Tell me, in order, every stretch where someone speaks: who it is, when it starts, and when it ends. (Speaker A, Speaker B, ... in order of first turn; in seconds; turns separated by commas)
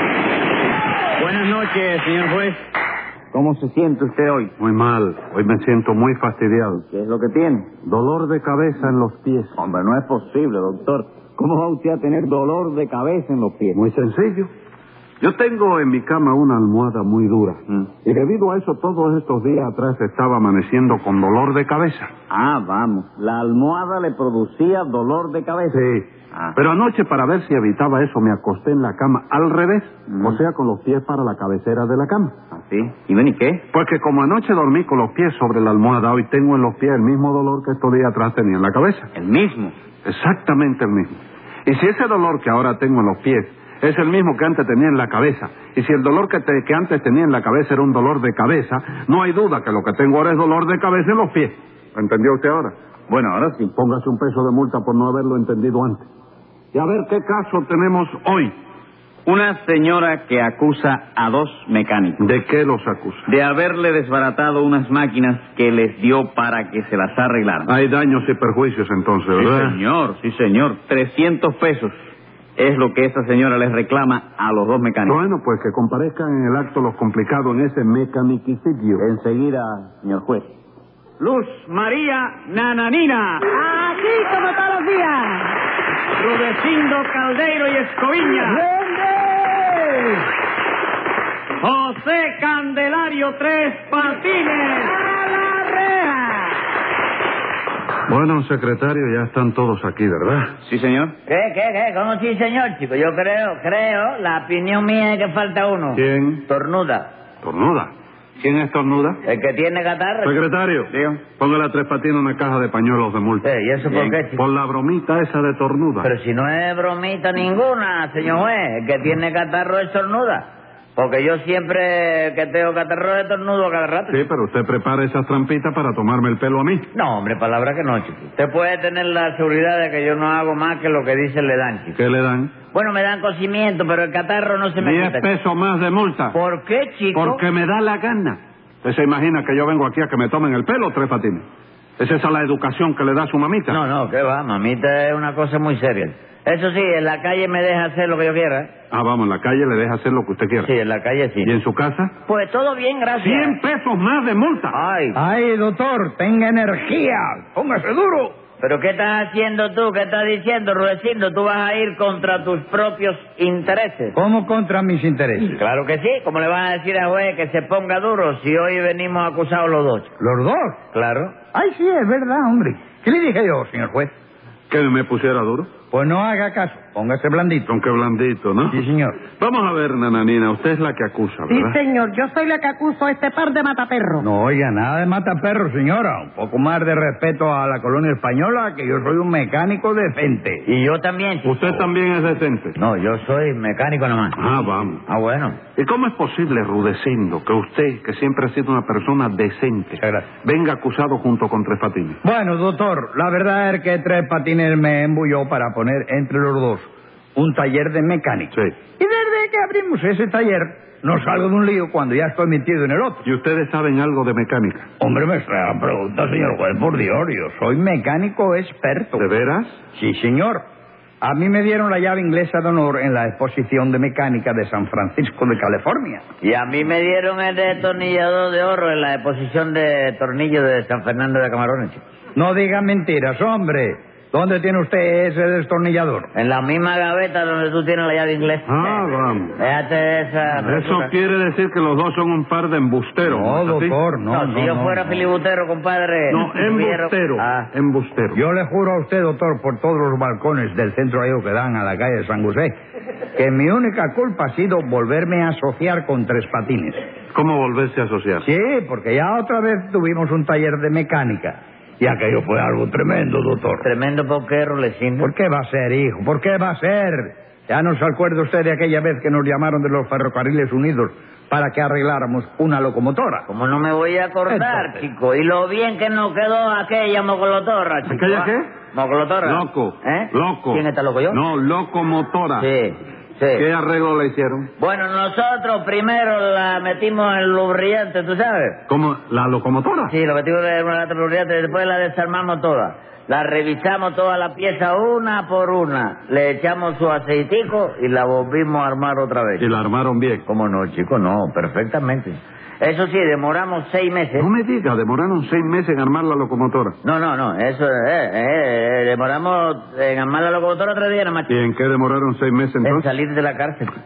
Speaker A: 1.4-2.4, Speaker A: 3.4-4.5, Speaker B: 4.6-6.8, Speaker B: 7.8-9.6, Speaker A: 9.7-13.7, Speaker B: 13.7-14.5, Speaker B: 15.2-22.1, Speaker A: 22.3-25.8, Speaker B: 25.7-32.4, Speaker A: 32.5-33.6, Speaker B: 33.7-39.1, Speaker A: 39.1-39.7, Speaker B: 40.0-52.8, Speaker A: 53.1-53.7, Speaker B: 53.7-56.1, Speaker B: 56.7-58.5, Speaker A: 59.3-62.2, Speaker B: 62.2-63.3, Speaker A: 63.3-67.7, Speaker B: 67.7-69.8, Speaker A: 69.4-71.9, Speaker A: 72.6-75.2, Speaker B: 75.0-79.1, Speaker A: 79.0-80.5, Speaker A: 81.2-83.4, Speaker C: 83.5-85.5, Speaker D: 86.2-88.0, Speaker C: 88.4-90.0, Speaker D: 91.7-95.0, Speaker C: 95.1-95.7, Speaker B: 98.1-100.6, Speaker A: 100.6-101.1, Speaker E: 101.3-107.1, Speaker B: 105.9-106.5, Speaker B: 107.4-109.2, Speaker E: 109.2-110.3, Speaker B: 110.2-116.1, Speaker A: 110.9-111.2, Speaker E: 113.4-114.4, Speaker E: 116.0-124.2, Speaker B: 124.1-126.9, Speaker E: 126.9-132.0, Speaker B: 131.9-132.5, Speaker E: 132.7-135.3, Speaker B: 134.8-136.4, Speaker E: 136.3-137.4, Speaker B: 137.1-141.4, Speaker B: 142.0-143.8, Speaker E: 143.7-148.7, Speaker B: 148.9-150.7, Speaker E: 150.6-151.5, Speaker B: 151.4-152.1, Speaker E: 152.3-153.6, Speaker B: 153.2-154.8, Speaker E: 154.7-155.2, Speaker F: 155.2-158.3, Speaker E: 158.6-164.2, Speaker F: 164.2-165.6, Speaker E: 165.5-170.1, Speaker F: 170.2-170.8, Speaker E: 170.9-171.3, Speaker F: 171.5-174.1, Speaker B: 174.7-175.7, Speaker F: 175.9-177.7, Speaker B: 177.7-178.8, Speaker F: 178.7-179.2, Speaker B: 179.3-181.8, Speaker C: 181.5-184.3, Speaker F: 184.2-190.7, Speaker E: 190.7-191.9, Speaker B: 191.4-192.8, Speaker E: 192.8-194.4, Speaker B: 194.4-195.0, Speaker E: 195.1-195.6, Speaker B: 195.8-202.2, Speaker F: 200.0-200.3, Speaker F: 202.2-213.2, Speaker B: 213.2-214.9, Speaker F: 215.0-219.2, Speaker B: 219.2-219.8, Speaker F: 219.9-220.6, Speaker F: 221.2-226.2, Speaker E: 226.4-232.0, Speaker F: 232.4-236.3, Speaker E: 236.3-239.1, Speaker B: 238.7-239.6, Speaker E: 239.6-241.1, Speaker B: 240.7-244.0, Speaker F: 243.2-245.3, Speaker E: 244.3-247.7, Speaker B: 246.3-248.4, Speaker F: 248.3-252.7, Speaker F: 253.3-257.0, Speaker B: 257.3-258.4, Speaker F: 258.4-263.9, Speaker E: 263.8-265.3, Speaker F: 265.2-273.5, Speaker E: 273.5-281.4, Speaker B: 278.1-278.7, Speaker B: 279.4-282.7, Speaker E: 282.6-283.7, Speaker B: 283.5-284.7, Speaker E: 284.8-288.8, Speaker B: 288.9-290.1, Speaker E: 290.1-299.7, Speaker B: 299.6-300.4, Speaker E: 300.5-304.5, Speaker B: 304.4-307.0, Speaker E: 307.0-311.5, Speaker B: 311.5-313.1, Speaker E: 312.8-313.9